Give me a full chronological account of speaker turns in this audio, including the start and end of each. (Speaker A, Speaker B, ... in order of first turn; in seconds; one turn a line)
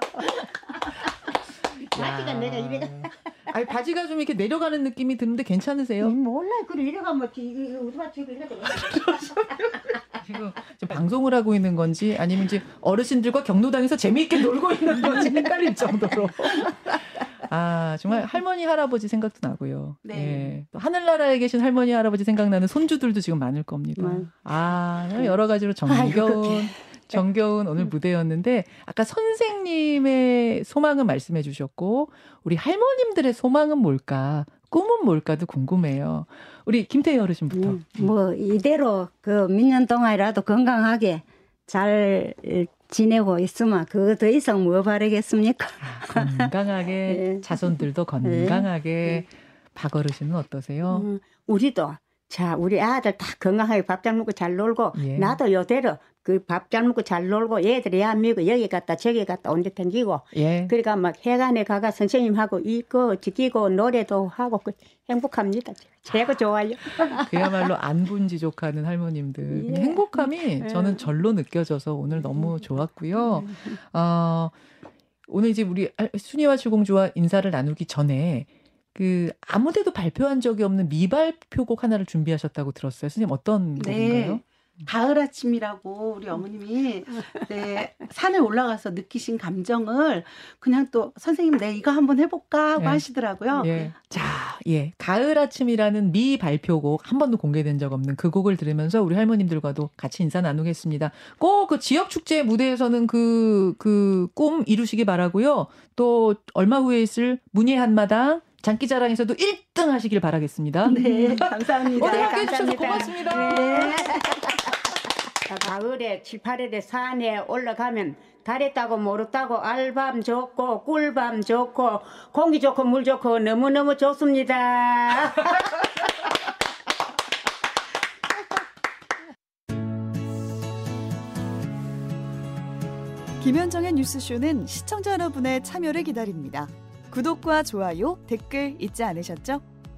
Speaker A: 1.8-3.1
Speaker B: 1.9-6.2
Speaker A: 6.0-10.0
Speaker B: 10.2-38.1
Speaker C: 20.1-20.5
Speaker D: 24.0-24.3
Speaker A: 25.9-26.7
Speaker D: 37.6-46.5
Speaker B: 45.8-51.1
Speaker D: 47.1-48.7
Speaker A: 50.9-67.4
Speaker B: 55.0-55.4
Speaker B: 60.3-60.7
Speaker B: 67.1-74.5
Speaker A: 69.5-71.1
Speaker B: 75.3-84.4
Speaker C: 83.8-93.8
Speaker B: 92.8-93.0
Speaker B: 93.6-114.1
Speaker C: 110.8-114.5
Speaker D: 110.9-111.4
Speaker A: 111.9-114.6
Speaker A: 115.5-125.9
Speaker E: 133.4-139.7